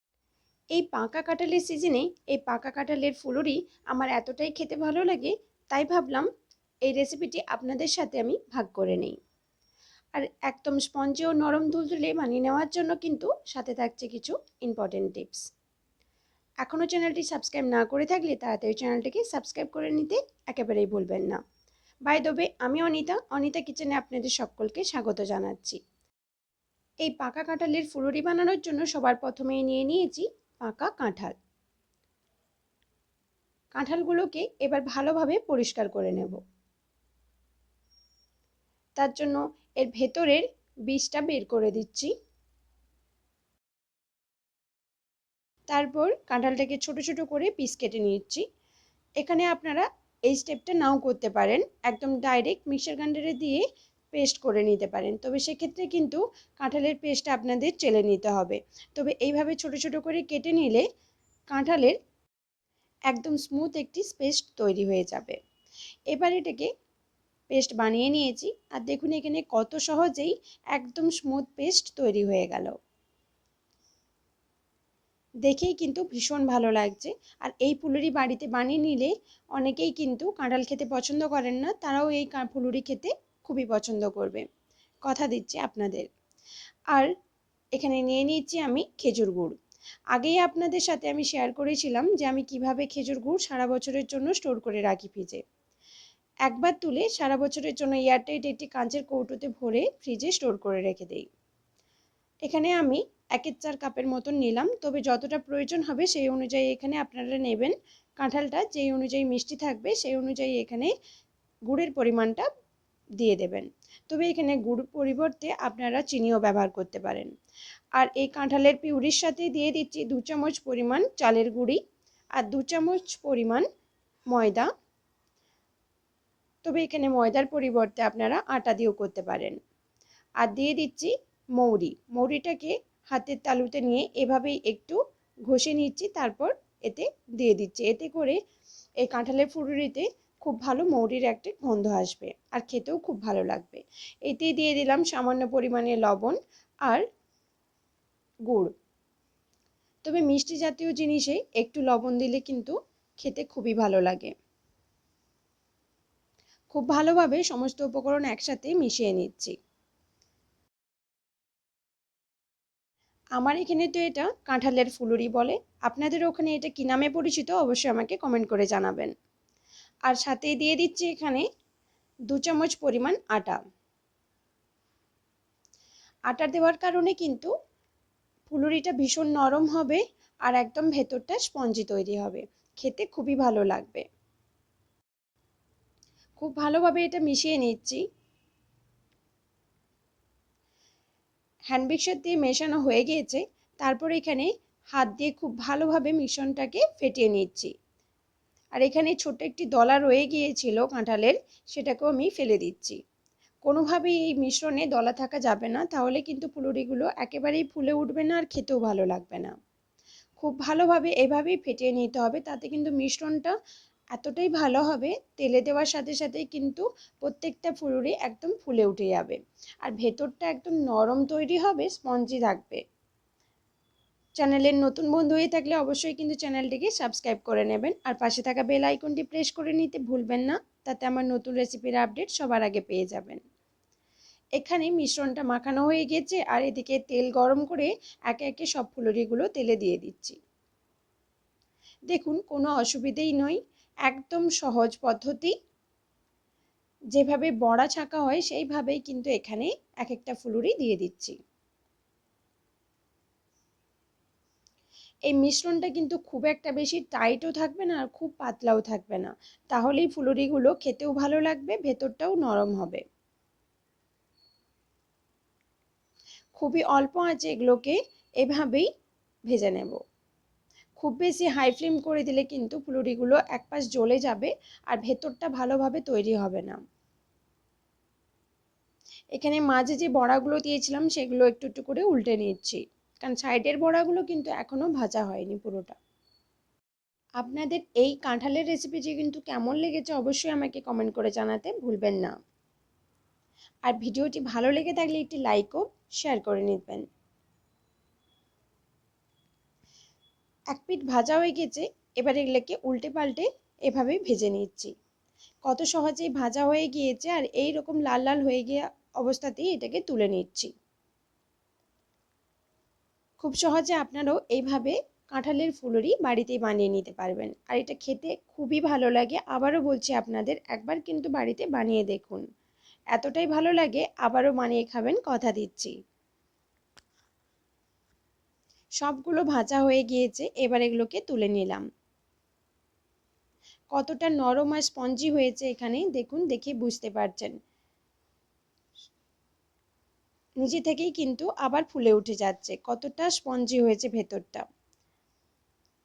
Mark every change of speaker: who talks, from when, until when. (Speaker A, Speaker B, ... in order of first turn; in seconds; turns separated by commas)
Speaker A: 0.7-6.3, Speaker A: 6.9-9.2, Speaker A: 10.2-15.5, Speaker A: 16.6-21.4, Speaker A: 22.1-25.8, Speaker A: 27.1-31.4, Speaker A: 33.8-36.4, Speaker A: 39.0-42.1, Speaker A: 45.7-48.4, Speaker A: 49.2-60.9, Speaker A: 61.5-62.0, Speaker A: 63.1-65.4, Speaker A: 66.1-66.7, Speaker A: 67.5-72.8, Speaker A: 75.5-84.5, Speaker A: 85.0-86.1, Speaker A: 87.8-89.5, Speaker A: 90.1-95.4, Speaker A: 96.5-101.3, Speaker A: 102.5-110.9, Speaker A: 111.7-112.5, Speaker A: 113.2-117.3, Speaker A: 118.0-121.8, Speaker A: 122.4-123.7, Speaker A: 124.3-124.7, Speaker A: 126.6-129.6, Speaker A: 130.4-138.4, Speaker A: 139.0-147.0, Speaker A: 150.1-154.3, Speaker A: 156.7-159.5, Speaker A: 163.4-169.1, Speaker A: 170.1-171.5, Speaker A: 172.3-173.6, Speaker A: 176.3-177.5, Speaker A: 178.5-184.1, Speaker A: 186.4-188.0, Speaker A: 191.7-197.7, Speaker A: 198.8-203.0, Speaker A: 203.7-209.6, Speaker A: 210.4-213.5, Speaker A: 214.2-222.8, Speaker A: 224.4-233.4, Speaker A: 234.6-240.4, Speaker A: 242.1-245.5, Speaker A: 247.1-251.4, Speaker A: 255.3-263.0, Speaker A: 266.6-268.9, Speaker A: 269.5-270.0, Speaker A: 271.0-276.8, Speaker A: 279.4-286.0, Speaker A: 287.4-292.4, Speaker A: 293.9-297.1, Speaker A: 300.7-304.9, Speaker A: 305.7-310.7, Speaker A: 313.4-322.4, Speaker A: 323.1-325.9, Speaker A: 329.0-331.8, Speaker A: 333.9-337.5, Speaker A: 340.6-344.7